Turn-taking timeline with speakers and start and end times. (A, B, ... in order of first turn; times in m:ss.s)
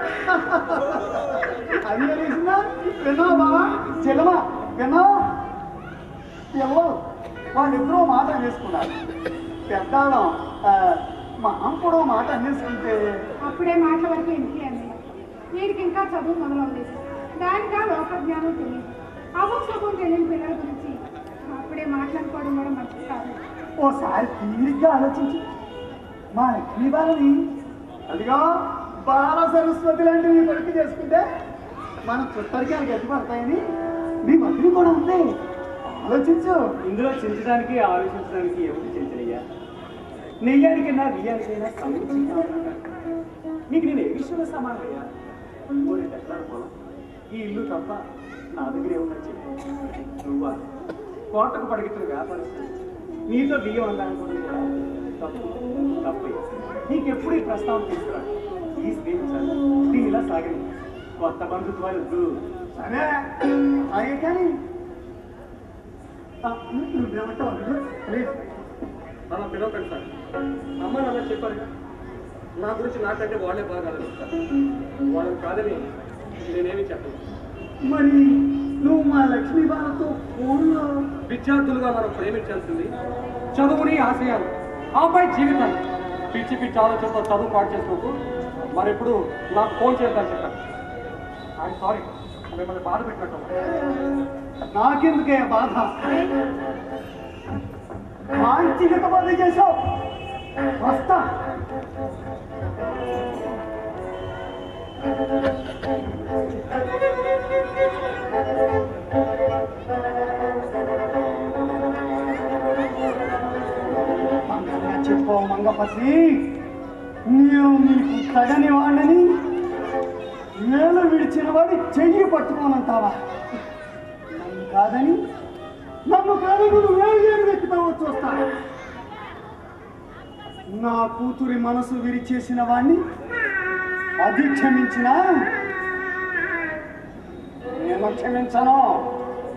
0:00.2-0:01.2 A
0:01.8-0:05.2 A
0:06.5-0:06.9 A
0:07.5-0:08.9 A
0:09.7-0:13.0 A
0:13.4-0:15.0 B
0:15.5-0:21.0 B
0:21.5-0:23.4 B
0:23.8-0:25.4 A
0:26.3-0:27.3 A
0:28.1-0:31.2 A
0:32.0-0:33.6 A
0:34.2-0:35.2 A
0:35.9-0:36.7 A
0:36.8-0:39.4 C
0:40.4-0:42.9 C
0:43.7-0:45.0 C
0:45.8-0:46.7 C
0:47.3-0:49.5 C
0:50.0-0:50.6 C
0:51.3-0:52.7 C
0:53.3-1:02.4 C
1:02.7-1:03.2 A
1:03.9-1:04.5 A
1:06.4-1:08.6 A
1:09.3-1:10.1 D
1:10.8-1:11.7 D
1:12.6-1:14.3 D
1:15.1-1:17.2 D
1:17.8-1:21.0 A
1:21.3-1:22.9 D
1:23.5-1:25.8 D
1:26.3-1:28.1 D
1:28.7-1:30.6 D
1:31.6-1:33.6 D
1:34.7-1:35.9 A
1:38.4-1:39.7 A
1:40.8-1:41.2 A
1:54.5-1:56.6 A
1:57.3-1:59.2 A
2:00.6-2:03.1 A
2:04.4-2:05.2 A
2:06.1-2:08.4 A
2:10.7-2:13.0 A
2:14.2-2:15.2 A
2:17.7-2:18.9 A